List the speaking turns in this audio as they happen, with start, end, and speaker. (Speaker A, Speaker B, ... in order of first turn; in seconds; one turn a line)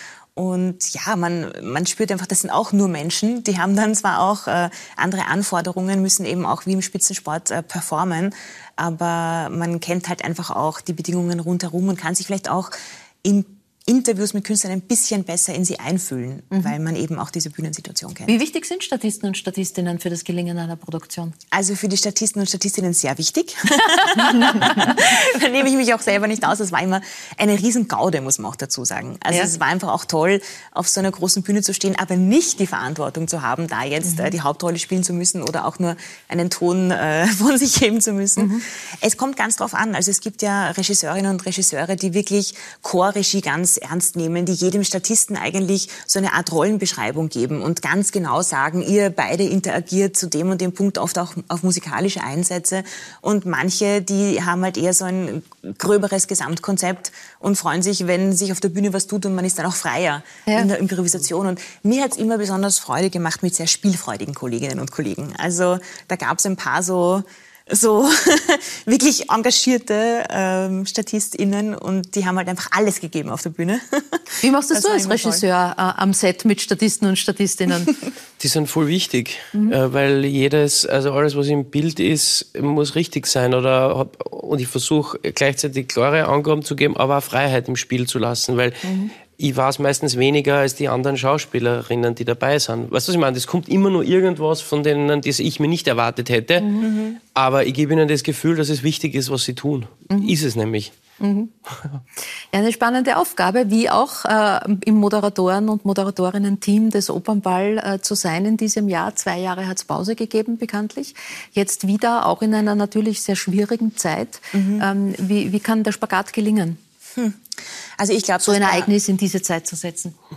Speaker A: 0.4-18.4
Speaker B: 18.3-21.3
Speaker A: 21.5-75.4
Speaker B: 24.1-24.9
Speaker B: 34.0-34.3
Speaker B: 74.4-77.9
Speaker C: 78.4-96.7
Speaker B: 88.8-89.1
Speaker B: 96.6-96.9
Speaker A: 96.8-97.2
Speaker C: 97.3-100.9
Speaker B: 100.1-100.4
Speaker B: 101.2-101.5
Speaker B: 102.5-116.8
Speaker A: 114.5-114.9
Speaker A: 117.2-117.5
Speaker A: 118.0-118.9
Speaker B: 118.4-120.2